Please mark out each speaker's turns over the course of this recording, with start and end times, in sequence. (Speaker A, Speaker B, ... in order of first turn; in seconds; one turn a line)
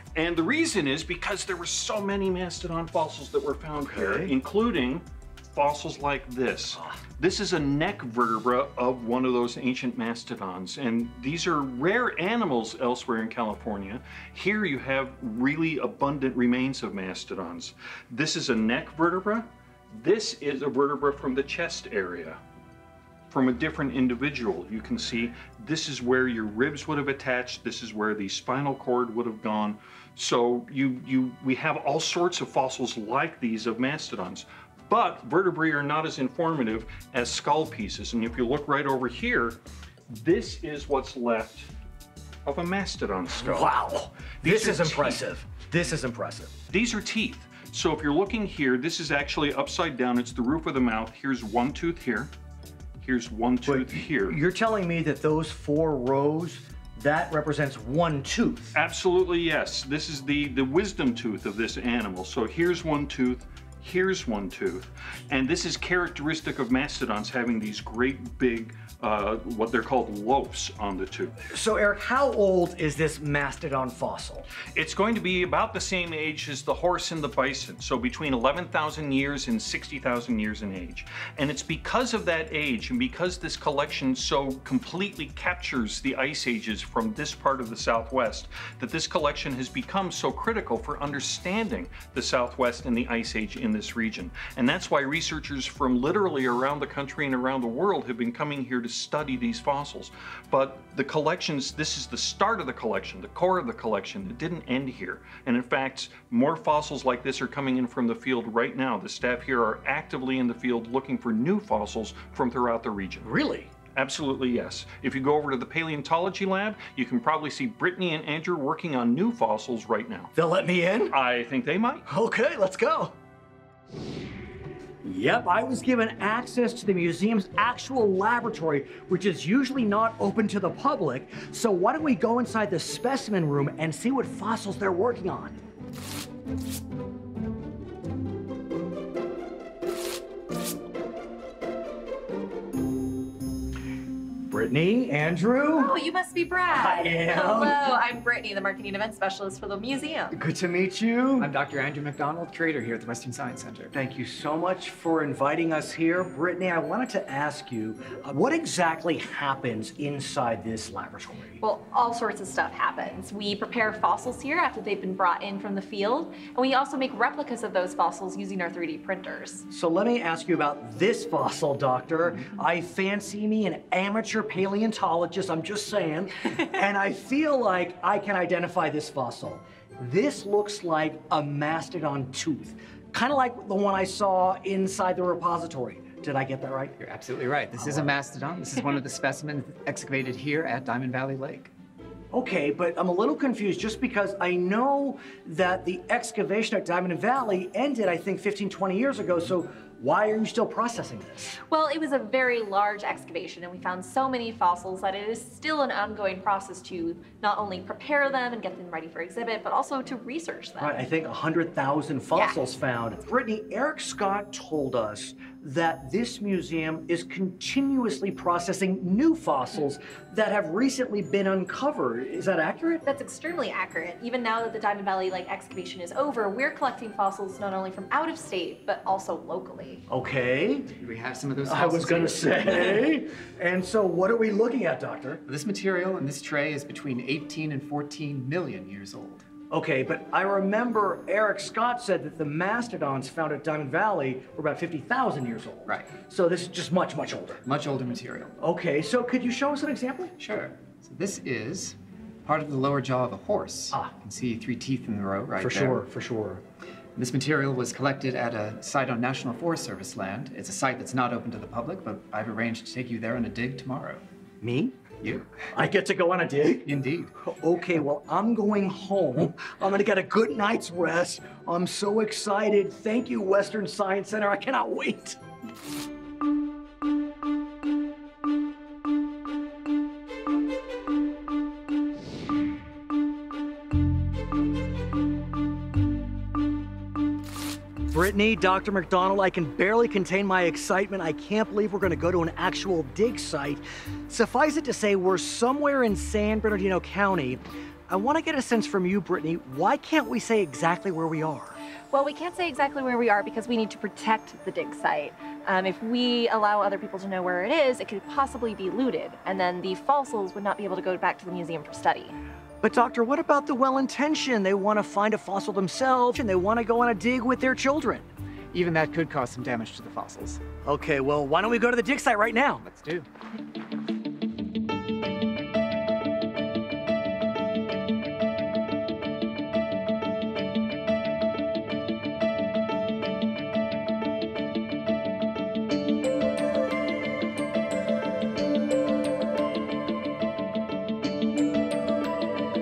Speaker A: 0.1-22.4
Speaker B: 3.8-4.3
Speaker A: 23.3-39.6
Speaker A: 40.1-41.7
Speaker A: 42.5-43.7
Speaker B: 43.3-46.5
Speaker A: 44.4-45.2
Speaker A: 46.7-52.3
Speaker A: 53.0-54.4
Speaker B: 53.6-58.8
Speaker A: 58.8-71.5
Speaker B: 71.5-74.5
Speaker A: 74.7-113.3
Speaker B: 113.2-113.7
Speaker A: 114.0-120.3
Speaker B: 120.4-121.2
Speaker A: 121.1-122.1
Speaker B: 122.1-123.2
Speaker B: 125.0-135.6
Speaker B: 144.5-145.9
Speaker C: 145.7-150.4
Speaker B: 146.7-147.8
Speaker B: 150.3-151.5
Speaker D: 151.4-153.9
Speaker B: 153.9-161.6
Speaker C: 161.6-169.7
Speaker B: 169.7-187.0
Speaker D: 187.0-191.7
Speaker B: 187.8-188.1
Speaker B: 192.3-201.6
Speaker C: 201.7-211.0
Speaker B: 210.8-223.0
Speaker C: 212.3-212.6
Speaker C: 223.0-230.0
Speaker B: 230.1-230.9
Speaker D: 231.0-233.1
Speaker B: 231.7-235.4
Speaker D: 235.5-239.4
Speaker B: 239.7-247.6
Speaker D: 245.9-246.1
Speaker D: 247.6-248.6
Speaker B: 248.6-250.3
Speaker D: 250.4-256.1
Speaker B: 255.6-256.6
Speaker D: 257.2-264.2
Speaker B: 264.6-275.4
Speaker D: 265.2-265.5
Speaker D: 266.9-267.3
Speaker B: 288.1-301.8
Speaker C: 302.1-312.4
Speaker B: 312.8-318.3
Speaker D: 318.7-320.6
Speaker B: 320.8-322.8
Speaker D: 322.8-323.3